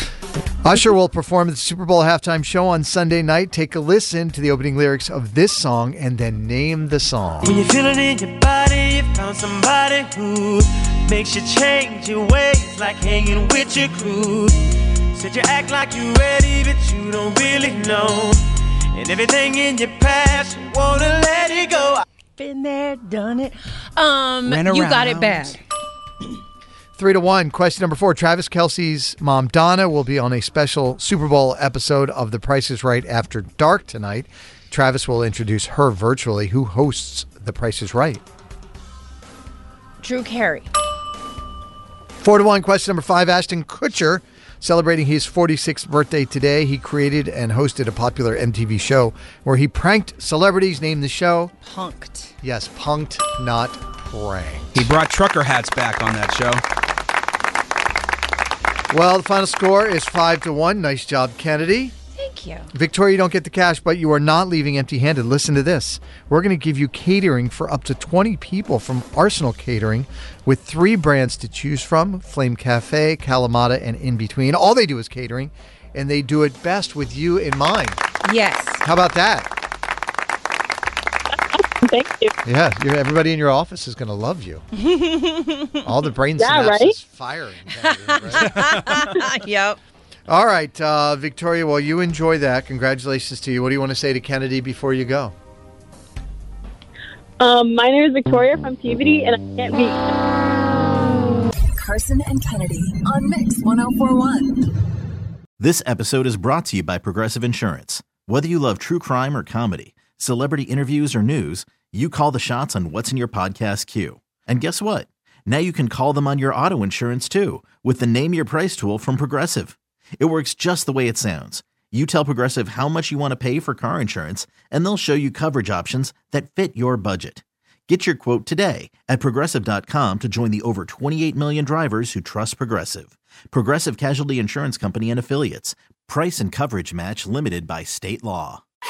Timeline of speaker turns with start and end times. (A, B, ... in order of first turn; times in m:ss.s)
0:00.6-0:07.6 A
0:07.4-0:18.4 B
0:18.9-0:22.0 B
0:22.4-0:25.6 C
0:24.4-0:25.6 D
0:27.0-0:38.2 A
0:40.0-0:40.7 C
0:42.2-0:51.5 A
0:51.6-0:52.3 C
0:52.4-0:54.8 A
0:54.7-0:56.6 D
0:58.9-1:01.9 A
1:02.2-1:02.7 C
1:02.7-1:18.0 A
1:18.2-1:18.8 C
1:18.8-1:19.5 A
1:21.8-1:22.3 E
1:22.4-1:24.6 A
1:24.8-1:25.8 C
1:25.8-1:28.7 A
1:26.4-1:26.9 E
1:27.8-1:29.8 C
1:30.3-1:35.3 A
1:37.4-1:40.0 E
1:41.8-1:44.6 F
1:45.6-2:18.6 G